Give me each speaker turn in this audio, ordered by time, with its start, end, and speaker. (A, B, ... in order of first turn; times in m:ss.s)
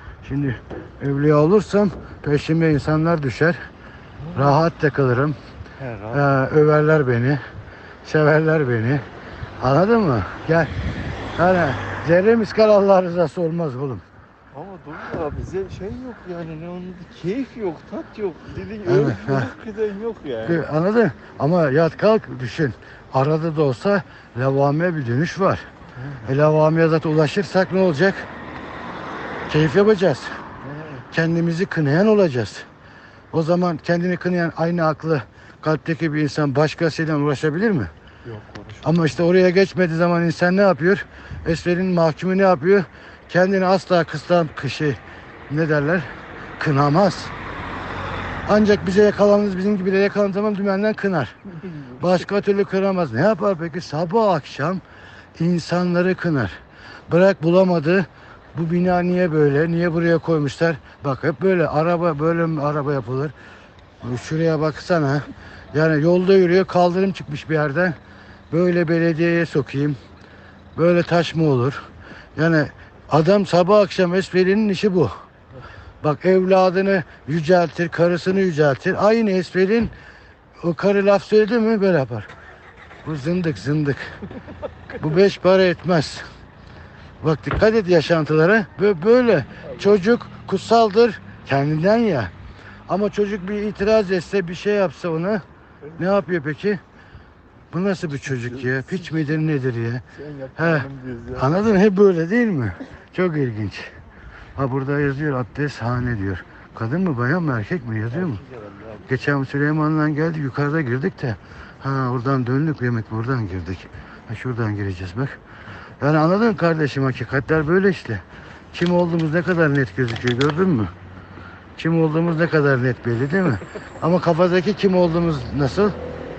0:00.2-0:03.6 A
0:04.2-0:04.6 B
0:04.3-0:05.4 A
0:05.8-0:06.4 B
0:06.1-0:07.4 A
0:08.0-0:09.1 A
0:09.6-0:10.7 A
0:11.4-0:14.0 A
0:14.5-0:20.7 B
0:18.9-0:19.5 A
0:20.4-0:25.6 A
0:26.0-0:26.3 B
0:26.3-0:28.3 A
0:29.5-0:30.3 A
0:30.6-0:31.0 B
0:31.1-0:32.7 A
0:33.3-0:37.9 A
0:38.2-0:39.0 B
0:38.8-0:45.0 A
0:45.5-0:46.1 A
0:46.6-0:47.3 A
0:48.5-0:54.8 A
0:55.4-0:56.6 A
0:57.1-1:03.3 A
1:04.0-1:08.0 A
1:08.5-1:10.0 A
1:10.8-1:11.8 A
1:12.4-1:15.1 A
1:16.0-1:19.9 A
1:20.6-1:22.3 A
1:23.0-1:24.1 A
1:25.0-1:26.2 A
1:27.2-1:32.3 A
1:32.9-1:35.4 A
1:36.0-1:36.8 A
1:37.7-1:40.0 A
1:38.3-1:39.1 B
1:40.1-1:41.7 B
1:40.6-1:43.9 A
1:44.6-1:48.4 A
1:48.1-1:49.1 B
1:49.1-1:55.4 A
1:56.0-1:58.2 A
1:58.7-2:00.9 A
2:01.8-2:06.0 A